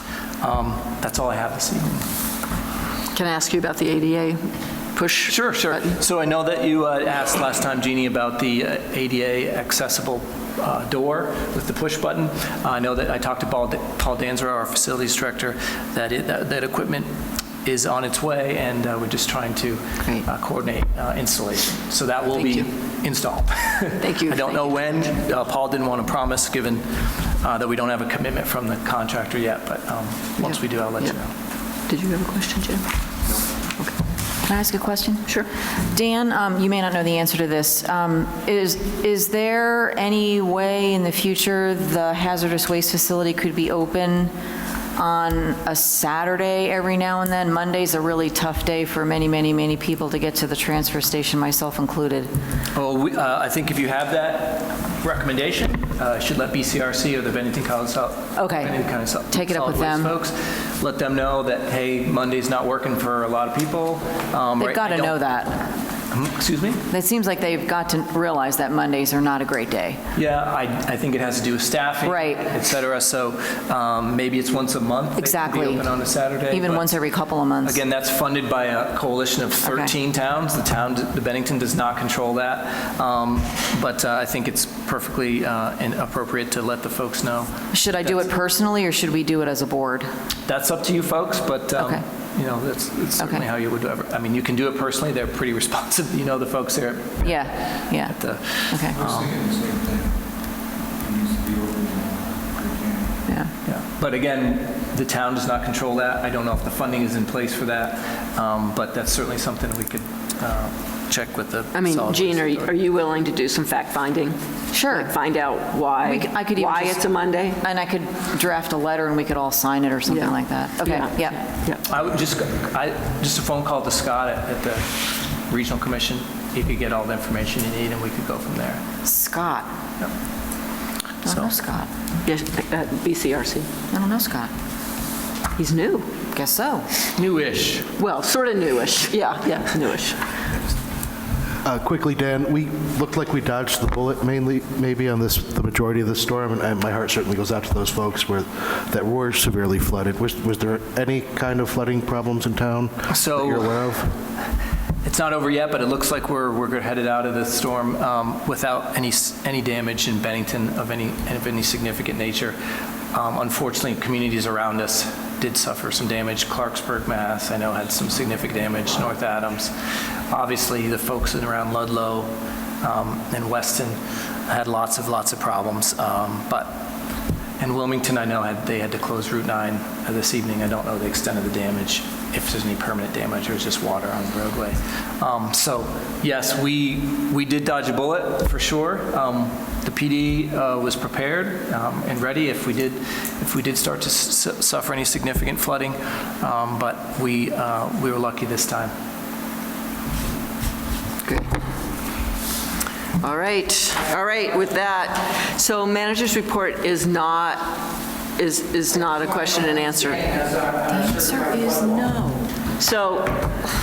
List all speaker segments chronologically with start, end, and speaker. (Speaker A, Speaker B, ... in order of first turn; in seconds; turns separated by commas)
Speaker A: 0.4-2.1, Speaker B: 3.1-4.4, Speaker B: 5.0-5.9, Speaker A: 5.3-17.1, Speaker A: 17.6-31.3, Speaker B: 24.0-24.9, Speaker B: 30.5-31.1, Speaker B: 31.9-32.9, Speaker C: 34.5-35.4, Speaker C: 35.9-44.3, Speaker C: 45.0-52.3, Speaker A: 52.8-65.2, Speaker C: 58.4-58.8, Speaker C: 59.3-60.1, Speaker C: 64.6-65.7, Speaker A: 66.1-66.9, Speaker C: 66.9-70.0, Speaker A: 70.2-76.9, Speaker C: 72.0-72.4, Speaker C: 75.2-75.9, Speaker C: 76.5-77.8, Speaker A: 77.6-88.3, Speaker C: 79.7-79.9, Speaker C: 87.7-90.1, Speaker A: 90.5-99.4, Speaker C: 93.2-93.4, Speaker C: 97.2-98.2, Speaker C: 98.7-99.0, Speaker D: 99.0-100.1, Speaker D: 101.0-103.1, Speaker A: 103.7-112.7, Speaker B: 111.7-117.6, Speaker C: 114.7-115.1, Speaker C: 116.0-117.0, Speaker C: 117.6-121.4, Speaker B: 120.1-121.8, Speaker A: 121.9-128.8, Speaker C: 129.1-129.7, Speaker A: 131.2-131.5, Speaker C: 131.2-131.9, Speaker B: 132.2-133.7, Speaker C: 133.9-134.5, Speaker B: 135.6-136.1, Speaker C: 136.3-136.9, Speaker A: 137.1-137.9, Speaker B: 138.0-140.3, Speaker E: 141.6-154.1, Speaker A: 153.1-153.8, Speaker A: 155.0-162.6, Speaker A: 163.1-169.7, Speaker A: 170.3-176.8, Speaker A: 177.6-198.9, Speaker B: 203.2-207.8, Speaker B: 208.4-213.7, Speaker C: 210.9-212.1